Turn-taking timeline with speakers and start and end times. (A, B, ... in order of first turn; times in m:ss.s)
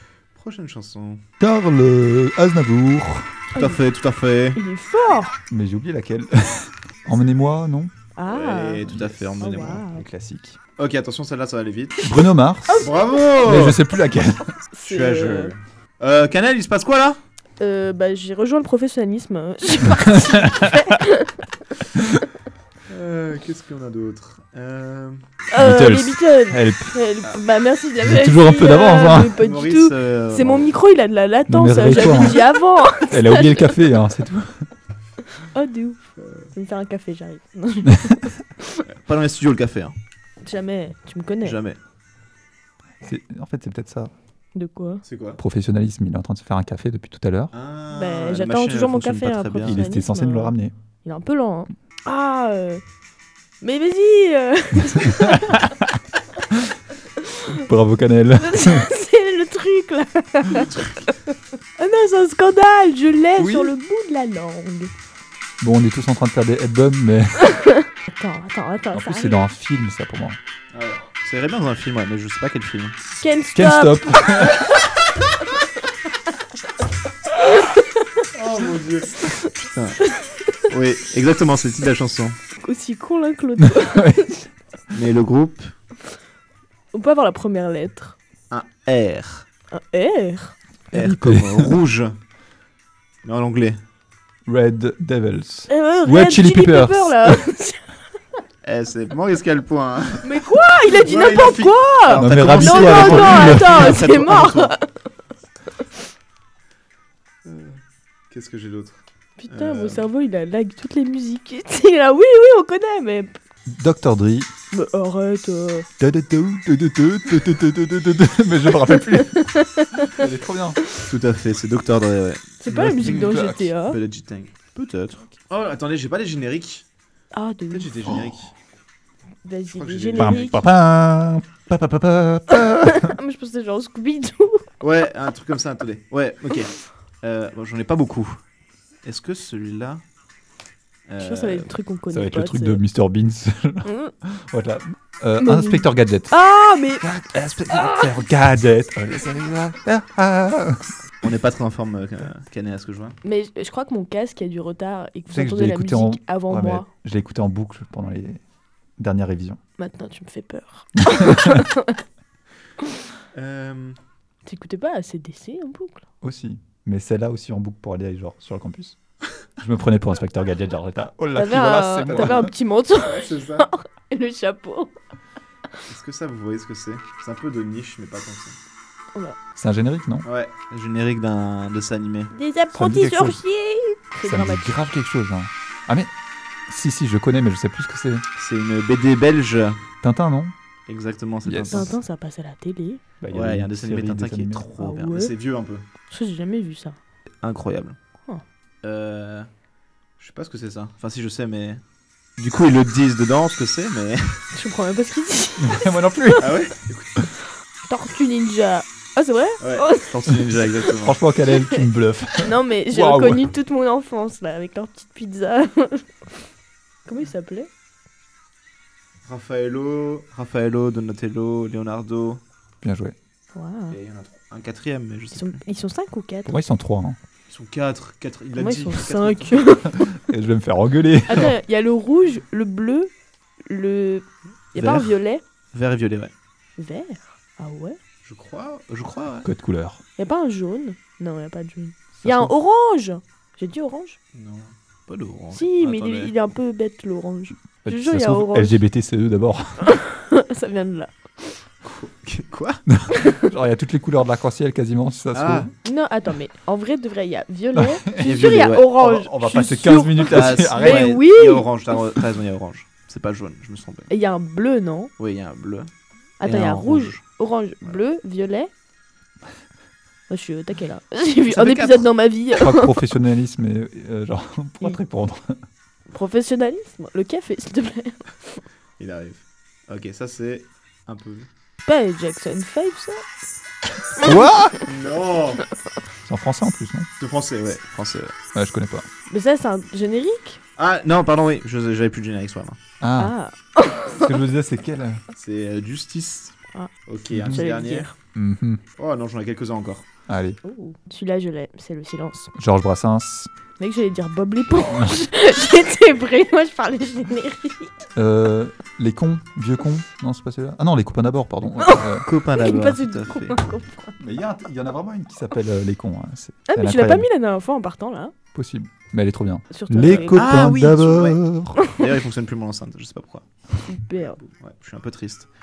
0:00.4-0:01.2 A
0:01.4-0:03.4 B
0:03.5-0:03.8 C
0:03.5-0:04.6 A
0:04.6-0:05.4 C
0:05.5-0:07.9 B
0:08.2-0:08.9 C
0:08.3-0:09.8 A
0:08.9-0:10.6 B
0:09.4-0:10.0 C
0:10.8-0:12.1 A
0:12.0-0:14.6 B
0:12.7-0:13.4 C
0:12.8-0:13.8 A
0:14.7-0:15.5 C
0:14.8-0:17.2 A
0:17.6-0:21.4 C
0:19.9-0:20.8 B
0:22.9-0:25.2 A
0:25.5-0:33.8 C
0:25.6-0:27.0 B
0:28.0-0:29.4 B
0:29.2-0:30.7 A
0:31.5-0:32.5 B
0:33.0-0:34.7 B
0:35.3-0:36.0 C
0:36.2-0:36.5 A
0:36.5-0:38.8 C
0:38.9-0:40.0 A
0:40.4-0:41.6 C
0:41.4-0:41.8 A
0:43.0-0:44.1 B
0:44.6-0:45.0 C
0:45.0-0:45.4 A
0:45.4-0:47.5 B
0:47.5-0:49.8 A
0:47.9-0:52.8 C
0:49.6-0:50.7 B
0:53.6-0:55.7 C
0:55.2-0:55.9 B
0:57.2-0:57.6 C
0:57.5-0:58.9 B
0:58.4-1:04.9 C
1:03.4-1:03.7 B
1:05.6-1:07.5 B
1:07.4-1:09.5 C
1:08.9-1:10.4 B
1:10.7-1:13.0 A
1:13.2-1:14.7 C
1:13.6-1:14.6 B
1:17.4-1:18.2 C
1:18.3-1:20.0 A
1:19.2-1:20.6 C
1:20.7-1:22.4 A
1:22.6-1:24.5 C
1:23.6-1:24.3 B
1:24.9-1:25.7 A
1:26.9-1:28.2 C
1:28.5-1:29.5 A
1:29.7-1:30.6 C
1:30.9-1:32.2 A
1:30.9-1:31.7 B
1:33.2-1:33.8 A
1:34.5-1:37.4 B
1:35.7-1:38.0 C
1:38.6-1:44.8 A
1:40.2-1:44.9 C
1:42.2-1:44.0 B
1:47.4-1:47.8 A
1:48.3-1:50.0 A
1:49.4-1:53.4 C
1:53.7-1:54.5 B
1:54.7-1:55.9 C
1:56.0-2:00.8 B
1:58.9-2:00.2 C
2:01.0-2:06.8 A
2:02.6-2:04.0 C
2:03.0-2:03.7 B
2:07.3-2:07.9 C
2:07.7-2:08.5 A
2:09.4-2:10.6 C
2:09.7-2:10.5 A
2:10.2-2:13.2 B
2:12.5-2:14.7 C
2:14.8-2:18.4 A
2:19.0-2:20.0 A
2:21.1-2:21.7 A
2:21.2-2:22.8 C
2:22.1-2:26.4 B
2:23.8-2:24.1 C
2:25.4-2:27.1 C
2:27.0-2:30.9 B
2:31.2-2:33.2 A
2:33.2-2:36.9 C
2:35.3-2:38.4 B
2:39.0-2:39.6 B
2:39.8-2:42.0 C
2:41.1-2:41.6 B
2:43.3-2:44.0 A
2:44.5-2:46.0 C
2:46.2-2:49.0 B
2:49.6-2:52.5 B
2:51.4-2:54.9 C
2:52.1-2:52.4 A
2:53.0-2:53.7 A
2:55.9-2:58.6 A
2:59.6-3:00.3 B
3:00.2-3:02.3 A
3:02.3-3:04.9 C
3:02.8-3:03.4 B
3:04.2-3:06.1 B
3:06.7-3:08.2 B
3:08.4-3:09.8 A
3:10.0-3:10.5 B
3:10.9-3:11.9 A
3:11.4-3:11.9 B
3:11.7-3:13.0 C
3:13.2-3:14.7 B
3:13.3-3:15.9 A
3:14.8-3:15.3 C
3:16.1-3:17.0 C
3:17.4-3:18.0 A
3:18.8-3:19.5 A
3:20.2-3:21.8 A
3:22.4-3:24.4 A
3:24.5-3:26.4 C
3:25.6-3:26.5 B
3:26.4-3:27.2 A
3:27.9-3:30.9 C
3:29.6-3:31.2 A
3:31.0-3:33.5 B
3:31.5-3:31.8 C
3:32.4-3:36.1 C
3:37.1-3:37.7 C
3:39.2-3:42.4 A
3:42.8-3:43.2 B
3:43.5-3:44.0 C
3:43.9-3:45.6 A
3:45.3-3:46.6 C
3:46.5-3:47.2 B
3:47.5-3:49.6 A
3:48.6-3:50.1 C
3:49.9-3:51.6 B
3:51.3-3:53.1 C
3:53.6-3:55.4 C
3:54.8-3:55.2 A
3:55.7-3:56.3 A
3:56.8-3:58.0 C
3:58.2-3:59.5 A
3:59.4-4:00.0 B
4:00.2-4:04.2 C
4:02.2-4:02.5 B
4:04.3-4:06.3 A
4:05.5-4:08.8 C
4:07.8-4:09.9 B
4:09.8-4:11.6 C
4:11.9-4:12.8 A
4:12.9-4:15.7 B
4:13.1-4:13.5 C
4:15.3-4:15.7 A
4:15.8-4:21.7 C
4:17.8-4:21.1 B
4:18.2-4:18.9 A
4:20.3-4:24.1 A
4:24.1-4:25.1 C
4:25.2-4:25.9 A
4:26.4-4:28.7 C
4:26.4-4:27.2 A
4:30.3-4:33.0 C
4:31.5-4:32.1 A
4:32.6-4:35.6 B
4:36.1-4:38.6 C
4:39.0-4:41.5 A
4:41.8-4:43.2 C
4:44.2-4:44.4 C
4:44.2-4:44.8 B
4:44.8-4:45.6 A
4:46.3-4:47.1 B
4:47.2-4:48.3 A
4:48.5-4:49.1 B
4:49.3-4:50.6 C
4:50.8-4:52.8 A
4:53.0-4:53.3 B
4:53.2-4:54.4 C
4:54.1-4:55.2 B
4:55.3-4:58.1 A
4:56.7-4:58.2 C
4:58.4-4:58.8 B
4:59.0-5:00.1 A
5:00.3-5:00.6 B
5:00.6-5:02.5 C
5:02.6-5:03.5 B
5:03.8-5:08.0 C
5:08.2-5:12.3 B
5:11.8-5:14.2 C
5:12.2-5:13.6 A
5:14.2-5:17.3 B
5:16.7-5:18.3 C
5:18.5-5:21.8 B
5:19.7-5:20.8 C
5:20.1-5:23.5 A
5:23.8-5:24.4 C
5:24.4-5:25.5 A